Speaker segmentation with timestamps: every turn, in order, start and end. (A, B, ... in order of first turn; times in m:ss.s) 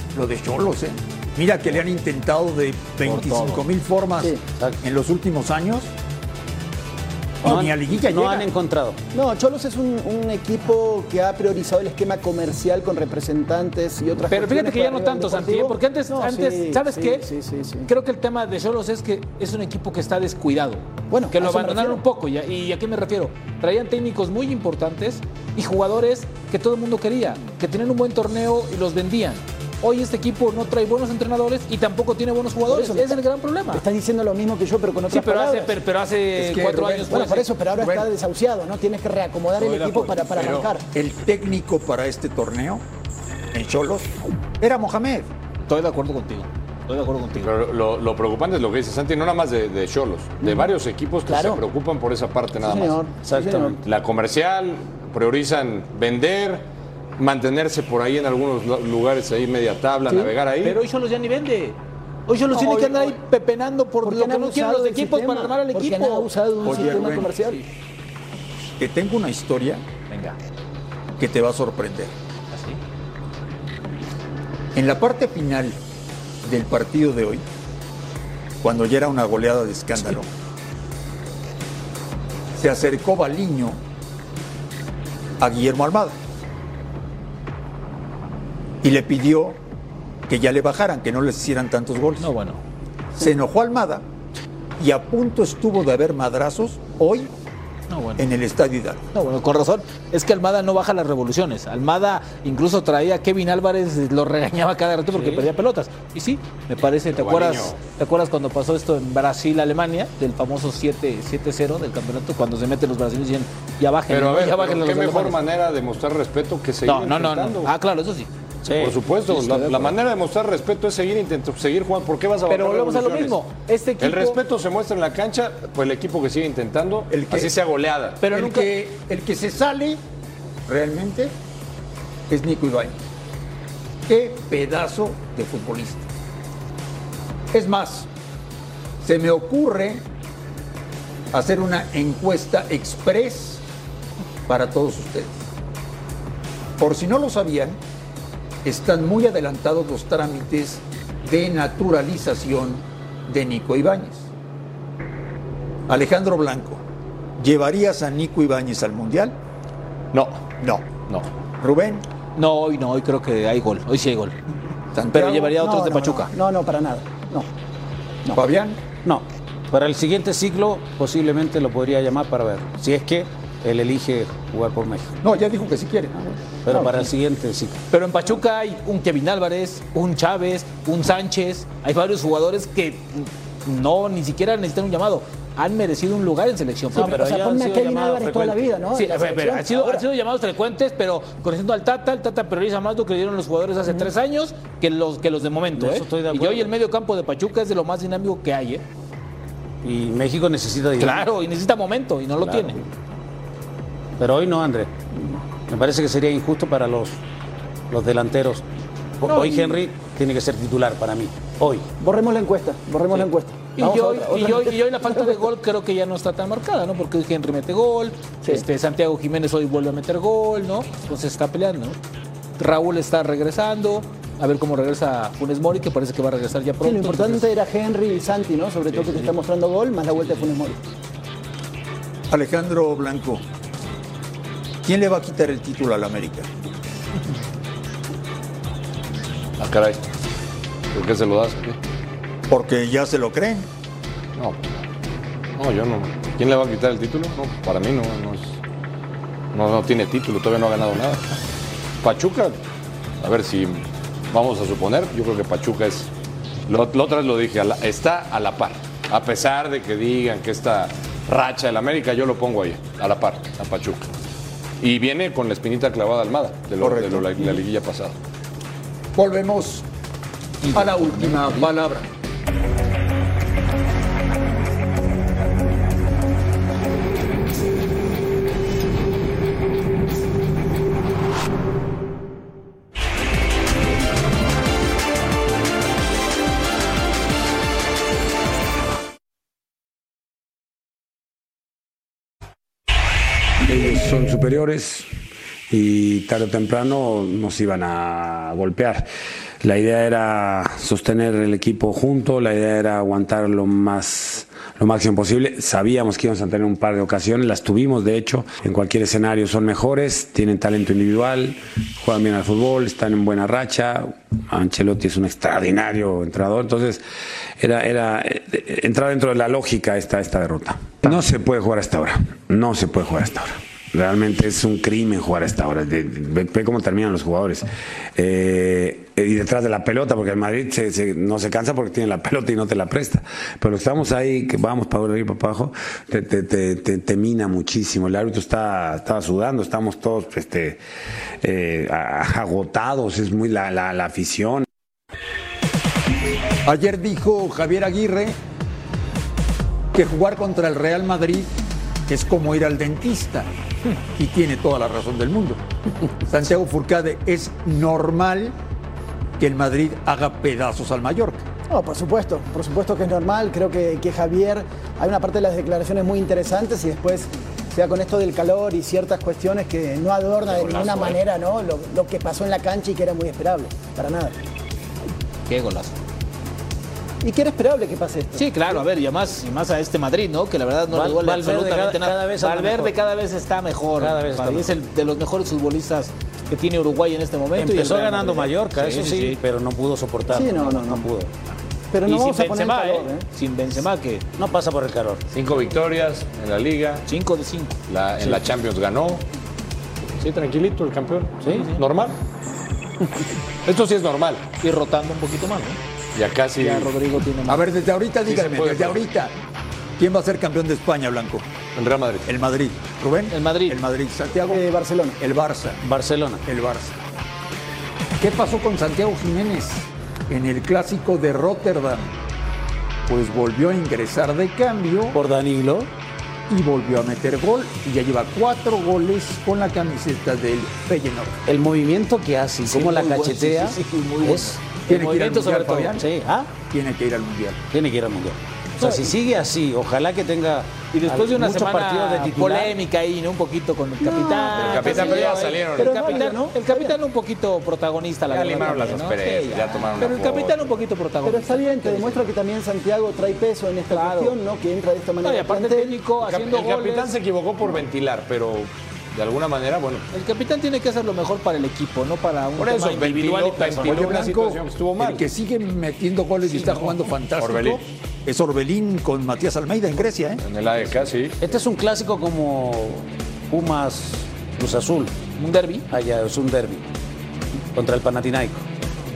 0:00.1-0:05.9 A
0:03.1-0:03.6 B
0:07.4-0:09.0 C
0:07.4-0:08.5 A
0:09.1-0:17.9 D
0:14.3-0:17.3 B
0:17.9-0:33.8 B
0:21.1-0:22.0 D
0:32.6-0:35.8 D
0:35.1-0:37.5 B
0:36.4-0:38.1 A
0:37.1-0:40.9 D
0:39.6-0:40.6 B
0:40.3-0:40.7 E
0:40.9-0:42.8 A
0:43.5-0:45.3 A
0:45.7-0:47.5 B
0:47.4-0:53.0 E
0:50.4-0:50.7 D
0:51.3-0:51.6 D
0:52.6-0:53.8 D
0:53.2-0:53.8 C
0:53.8-0:56.6 E
0:57.2-1:00.8 E
1:00.6-1:07.6 B
1:02.5-1:03.1 D
1:04.0-1:07.6 D
1:06.6-1:07.3 A
1:08.8-1:09.8 A
1:10.1-1:10.4 B
1:11.2-1:12.1 A
1:12.5-1:12.8 B
1:14.7-1:15.8 A
1:16.4-1:17.4 A
1:18.6-1:20.3 A
1:22.6-1:23.8 A
1:25.4-1:26.2 A
1:28.8-1:29.6 A
1:30.3-1:32.3 A
1:32.2-1:32.6 B
1:33.2-1:34.0 A
1:34.8-1:37.3 A
1:37.9-1:38.2 B
1:38.2-1:39.0 A
1:39.1-1:55.4 B
1:47.1-1:47.8 E
1:54.1-1:57.6 E
1:56.8-1:58.3 B
1:57.0-1:57.7 C
1:58.6-1:59.0 C
1:58.8-2:03.4 E
1:59.3-1:59.9 B
2:02.5-2:04.4 B
2:04.0-2:08.2 E
2:07.1-2:07.6 A
2:08.2-2:08.7 B
2:08.2-2:10.0 A
2:10.7-2:11.3 A
2:12.3-2:13.0 A
2:14.1-2:16.1 A
2:17.5-2:18.1 A
2:19.0-2:20.0 A
2:21.3-2:23.6 A
2:24.5-2:25.4 A
2:26.8-2:27.8 A
2:28.6-2:34.3 A
2:35.9-2:36.8 A
2:37.4-2:39.4 A
2:40.1-2:40.4 E
2:40.6-2:40.9 A
2:41.6-2:42.0 A
2:42.4-2:44.4 B
2:44.9-2:45.6 A
2:45.1-2:46.3 B
2:45.5-2:47.5 D
2:48.3-2:48.8 A
2:49.0-2:55.1 C
2:55.2-2:56.4 A
2:56.6-2:57.8 C
2:57.9-3:07.4 B
3:06.9-3:08.7 C
3:06.9-3:10.0 D
3:08.9-3:18.8 B
3:15.7-3:16.7 C
3:19.8-3:21.2 C
3:21.0-3:22.8 B
3:22.4-3:22.8 C
3:24.2-3:24.9 C
3:25.7-3:27.2 C
3:27.9-3:28.6 C
3:29.2-3:31.9 C
3:29.3-3:29.7 D
3:32.0-3:35.4 D
3:33.8-3:42.0 B
3:42.6-3:47.5 B
3:46.8-3:50.8 D
3:48.9-3:49.3 B
3:52.3-3:53.4 A
3:54.8-3:56.5 A
3:59.6-4:00.0 E
4:00.9-4:01.8 E
4:02.5-4:03.7 A
4:04.4-4:04.8 E
4:05.6-4:08.6 E
4:09.5-4:11.3 E
4:12.0-4:12.6 E
4:13.2-4:16.1 E
4:16.7-4:24.1 E
4:24.8-4:28.2 E
4:26.8-4:27.5 A
4:29.2-4:29.8 A
4:30.7-4:32.1 A
4:30.8-4:31.5 B
4:53.6-4:55.1 F
4:55.7-4:59.1 F
4:59.6-5:17.0 F
5:17.6-5:40.8 F
5:41.4-5:44.6 F
5:46.6-5:48.4 A
5:49.9-5:51.5 A
5:52.1-5:53.5 A
5:54.2-5:55.6 A
5:56.2-5:58.6 A
5:59.4-6:01.4 A
6:01.7-6:14.4 D
6:10.5-6:11.1 E
6:15.5-6:16.0 B
6:17.2-6:18.8 D
6:18.4-6:29.4 B
6:20.9-6:23.0 C
6:24.0-6:24.8 C
6:27.5-6:31.3 C
6:30.3-6:31.1 D
6:31.9-6:33.2 D
6:32.1-6:34.2 B
6:34.4-6:35.2 C
6:35.3-6:37.0 E
6:37.1-6:37.8 B
6:37.9-6:39.2 E
6:40.2-6:42.2 E
6:41.4-6:41.8 C
6:43.6-6:44.5 E
6:44.6-6:45.8 B
6:46.2-6:46.9 E
6:46.6-6:47.7 B
6:47.5-6:49.3 A
6:48.2-6:49.0 E
6:50.0-6:51.5 A
6:51.8-6:52.2 E
6:52.2-6:54.6 A
6:53.3-6:53.8 B
6:54.5-6:55.2 D
6:55.2-6:55.8 A
6:55.8-6:56.4 C
6:56.5-6:57.0 A
6:58.2-7:02.1 A
7:03.1-7:05.2 A
7:05.1-7:05.9 C
7:06.5-7:11.4 A
7:11.5-7:14.6 C
7:12.6-7:15.9 B
7:14.9-7:16.1 A
7:15.9-7:16.5 C
7:16.6-7:17.6 A
7:17.7-7:22.8 C
7:18.8-7:19.1 B
7:20.9-7:32.3 B
7:24.0-7:27.0 D
7:24.5-7:26.2 E
7:28.3-7:30.6 E
7:31.2-7:36.0 D
7:33.9-7:34.4 B
7:35.2-7:37.1 B
7:36.2-7:40.1 E
7:40.1-7:44.2 B
7:42.6-7:45.2 E
7:43.8-7:50.4 A
7:46.5-7:47.0 B
7:47.4-7:47.8 E
7:50.4-7:51.4 E
7:51.4-7:55.1 C
7:55.4-7:55.9 B
7:55.9-7:56.9 C
7:57.8-7:58.6 C